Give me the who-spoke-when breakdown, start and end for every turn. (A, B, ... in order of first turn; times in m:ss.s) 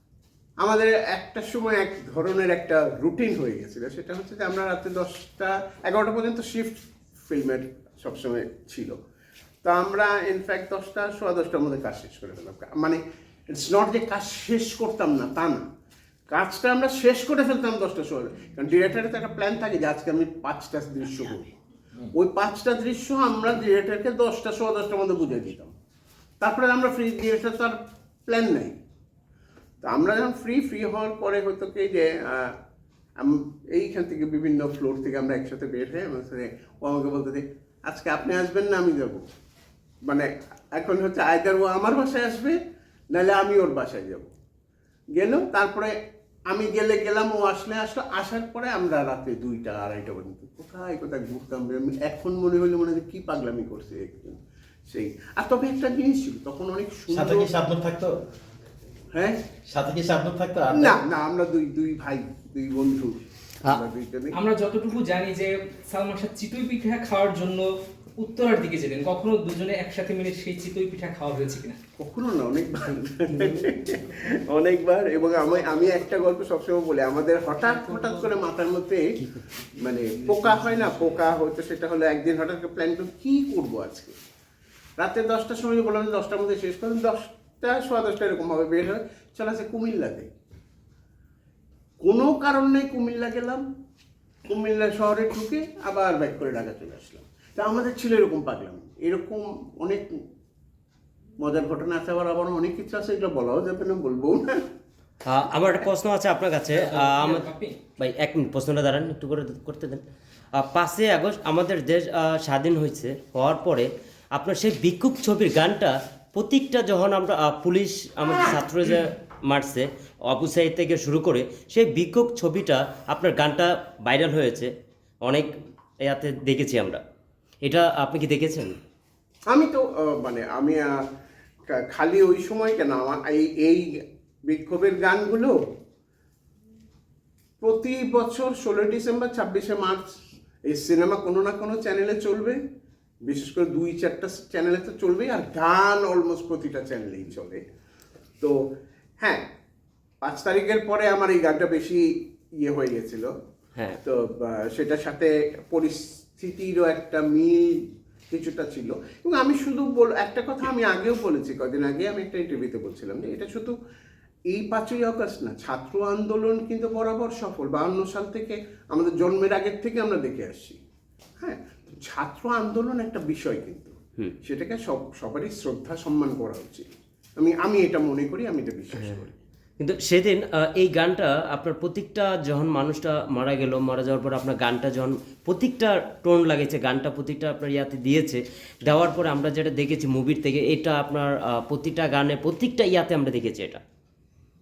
0:00.6-0:09.0 A
0:09.6-0:13.0 A
0:13.5-0:15.6 A
0:16.3-0:21.5 A
0:22.1-0:25.7 A
0:26.4-0:28.8 A
0:29.8-0:32.5 A
0:33.2-0:39.2 A
0:40.1-0:42.6 A
0:43.1-0:44.3 A
0:45.2-0:46.0 A
0:46.5-0:54.4 A
0:54.9-0:57.5 A
0:57.1-0:58.1 B
0:59.1-0:59.4 A
0:59.7-1:01.0 B
1:00.7-1:04.4 A
1:04.3-1:11.8 C
1:12.0-1:24.2 A
1:25.0-1:30.3 A
1:32.0-1:33.6 A
1:34.5-1:40.2 A
1:41.4-1:44.6 A
1:45.2-1:47.5 D
1:46.8-1:47.8 C
1:48.0-1:50.0 D
1:50.6-2:04.7 D
2:05.2-2:05.5 D
2:06.0-2:07.0 D
2:07.6-2:08.8 D
2:09.5-2:11.0 A
2:11.7-2:13.9 A
2:14.5-2:15.6 A
2:17.6-2:20.2 A
2:20.7-2:22.6 A
2:23.3-2:27.6 A
2:30.2-2:32.1 A
2:32.6-2:33.3 A
2:34.0-2:43.7 A
2:44.5-2:50.8 A
2:51.4-2:56.9 A
2:57.4-2:59.3 A
2:58.9-2:59.2 D
2:59.8-3:13.8 D